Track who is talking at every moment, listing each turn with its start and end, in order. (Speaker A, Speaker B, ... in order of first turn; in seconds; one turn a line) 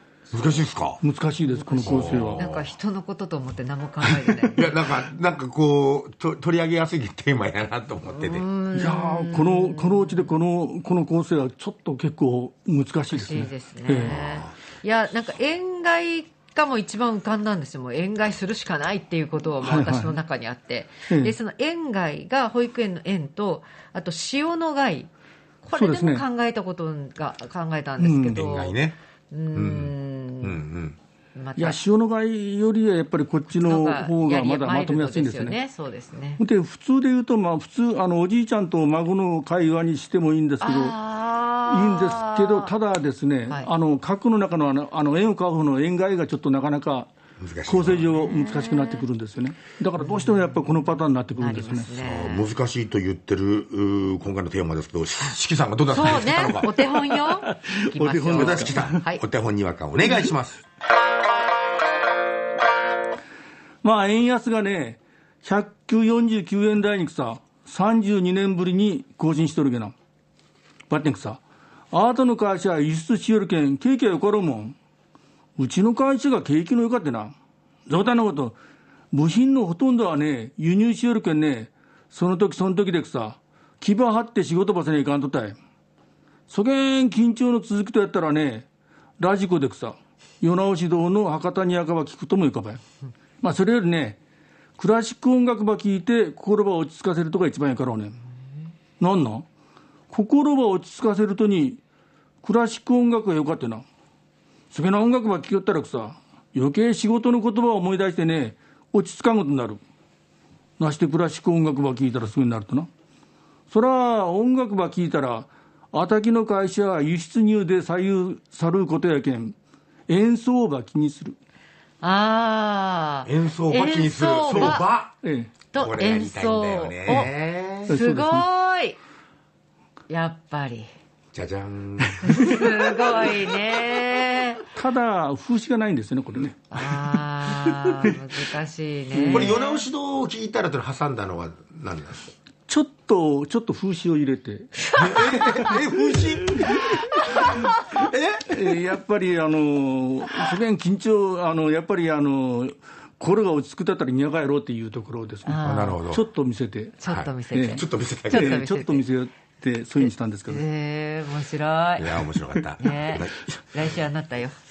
Speaker A: 0.3-1.0
Speaker B: 0.3-0.6
Speaker C: 1.0-2.5
Speaker B: 1.5-4.7
Speaker A: 1.8-2.7
Speaker A: 4.4-8.4
Speaker B: 8.1-10.3
Speaker C: 8.7-14.2
Speaker B: 13.3-25.1
Speaker A: 14.0-14.5
Speaker C: 19.6-20.1
Speaker C: 21.1-21.4
Speaker B: 25.6-28.8
Speaker C: 25.7-26.2
Speaker C: 28.0-28.4
Speaker A: 28.3-29.0
Speaker B: 29.3-30.6
Speaker A: 29.5-31.0
Speaker B: 31.4-31.8
Speaker C: 31.6-35.6
Speaker B: 33.5-36.4
Speaker C: 36.4-41.0
Speaker B: 40.6-42.7
Speaker C: 41.6-47.1
Speaker A: 47.4-48.1
Speaker C: 47.6-51.9
Speaker B: 48.1-49.0
Speaker B: 50.0-50.6
Speaker B: 51.4-52.5
Speaker A: 52.0-56.8
Speaker B: 55.9-59.2
Speaker C: 56.9-59.0
Speaker A: 58.3-60.6
Speaker C: 63.8-69.9
Speaker C: 70.9-71.4
Speaker C: 71.9-74.8
Speaker C: 75.6-77.3
Speaker C: 77.9-78.6
Speaker C: 79.1-85.6
Speaker C: 86.5-88.7
Speaker C: 89.2-92.8
Speaker C: 93.4-94.2
Speaker C: 94.8-98.2
Speaker C: 99.0-99.5
Speaker C: 100.1-101.8
Speaker C: 102.4-103.8
Speaker C: 104.7-109.8
Speaker C: 110.8-112.9
Speaker C: 113.7-119.5
Speaker C: 120.1-121.4
Speaker B: 122.0-124.9
Speaker A: 123.2-125.1
Speaker C: 124.5-125.5
Speaker B: 125.7-127.3
Speaker A: 125.7-127.9
Speaker C: 127.9-128.5
Speaker B: 127.9-129.0
Speaker B: 130.1-130.9
Speaker A: 131.3-132.6
Speaker B: 132.2-134.6
Speaker C: 134.7-138.2
Speaker B: 136.7-139.8
Speaker C: 139.1-139.6
Speaker A: 139.2-142.3
Speaker C: 142.7-147.0
Speaker A: 144.9-146.8
Speaker A: 147.4-148.6
Speaker C: 148.4-157.0
Speaker B: 155.4-156.0
Speaker A: 155.6-156.2
Speaker B: 157.0-159.1
Speaker A: 157.1-158.6
Speaker C: 157.5-160.6
Speaker B: 160.0-164.6
Speaker A: 162.0-163.4